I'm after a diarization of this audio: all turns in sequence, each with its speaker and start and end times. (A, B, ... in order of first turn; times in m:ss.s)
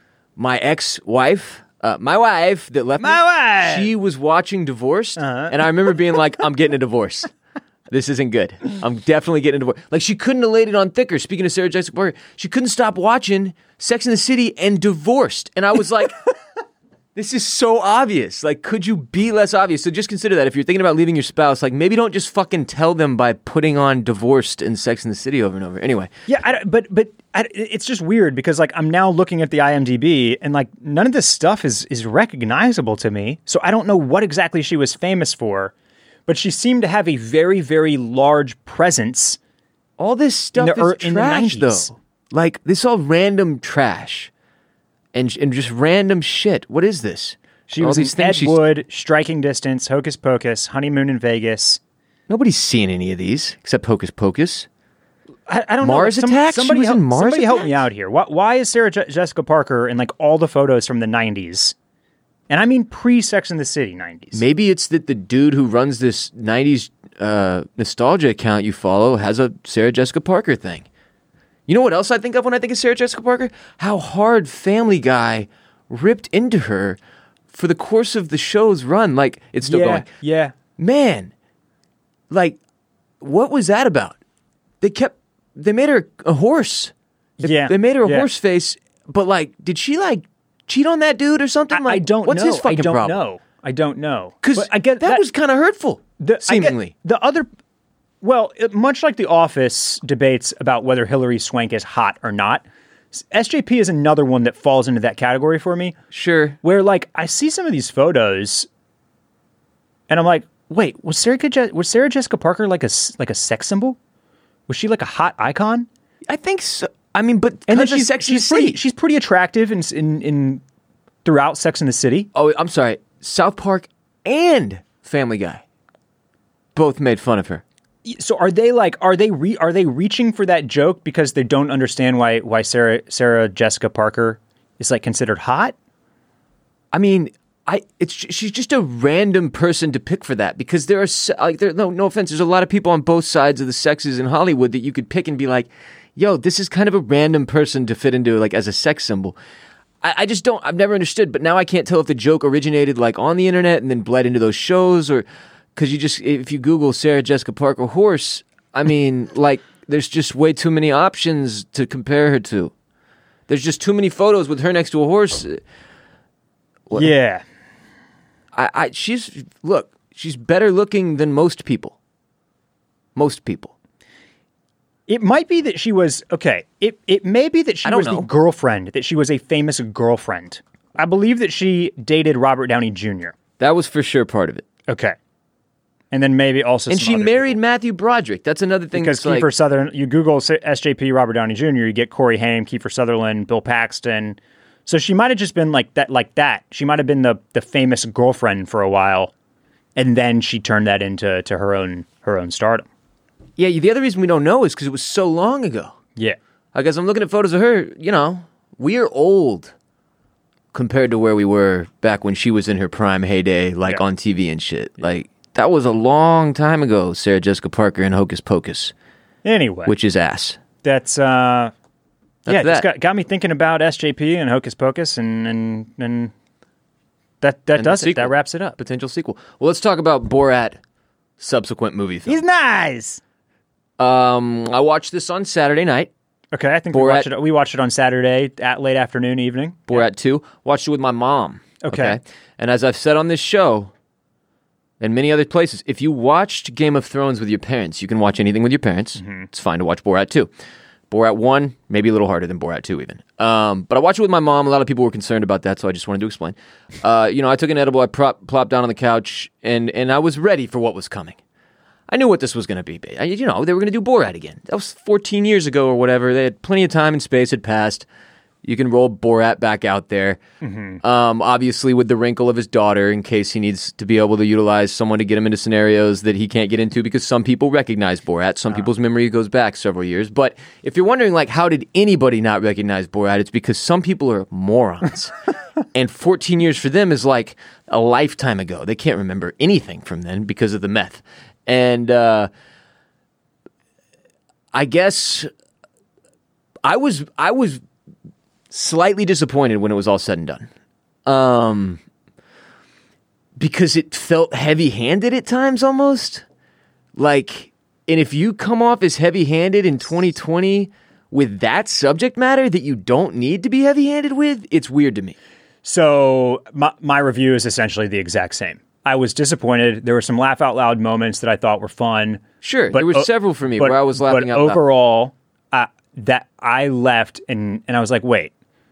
0:00.4-0:07.3 A
0:03.0-0:03.9 B
0:05.2-0:05.5 B
0:07.9-0:16.2 A
0:17.2-0:26.1 A
0:26.3-0:35.7 B
0:36.3-0:39.4 B
0:40.0-0:44.3 A
0:40.6-0:42.0 B
0:45.1-0:48.6 A
0:47.7-0:51.8 B
0:52.3-0:54.7 A
0:55.5-1:01.8 B
0:55.8-0:57.8 A
1:02.5-1:04.4 B
1:04.3-1:10.9 A
1:11.7-1:17.0 A
1:17.5-1:20.1 A
1:19.6-1:20.5 B
1:20.8-1:21.3 A
1:22.3-1:22.6 A
1:23.2-1:24.2 A
1:24.8-1:33.2 A
1:27.4-1:28.3 B
1:31.7-1:35.2 B
1:34.4-1:36.9 A
1:36.2-1:37.5 B
1:38.2-1:46.0 B
1:46.1-1:46.6 A
1:46.6-1:48.7 B
1:50.1-1:54.0 B
1:54.7-1:55.9 B
1:56.3-1:58.8 A
1:57.7-2:00.6 B
2:01.2-2:02.3 B
2:02.4-2:05.6 A
2:06.8-2:07.6 A
2:08.0-2:15.8 B
2:16.9-2:29.4 A
2:30.0-2:42.7 A
2:43.5-2:45.6 A
2:47.0-2:47.4 B
2:48.5-2:52.0 A
2:53.2-2:53.7 A
2:55.1-3:03.4 B
2:57.8-2:58.3 A
3:03.6-3:04.6 A
3:04.9-3:05.2 B
3:06.1-3:07.6 B
3:06.9-3:09.5 A
3:08.9-3:19.3 B
3:20.0-3:22.9 B
3:23.6-3:26.0 A
3:26.7-3:29.7 A
3:30.7-3:38.9 A
3:39.4-3:39.9 B
3:39.9-3:40.6 A
3:40.8-3:41.7 B
3:42.5-3:42.9 A
3:42.5-3:46.3 B
3:47.4-3:48.8 B
3:47.8-3:50.8 A
3:51.4-3:52.4 A
3:52.3-3:53.2 B
3:54.0-3:56.1 A
3:56.5-4:00.0 B
3:56.9-3:57.3 A
3:59.9-4:03.9 A
4:01.8-4:02.2 B
4:05.0-4:10.5 A
4:09.2-4:09.5 B
4:11.1-4:21.4 A
4:22.1-4:28.1 A
4:28.6-4:30.4 A
4:30.6-4:31.0 B
4:31.0-4:45.3 A
4:45.9-4:52.5 A
4:54.7-4:55.5 A
4:56.8-4:57.8 A
4:58.7-5:00.7 A
5:01.3-5:02.0 A
5:03.6-5:06.4 A
5:07.2-5:15.4 A
5:15.8-5:28.5 B
5:22.6-5:24.8 A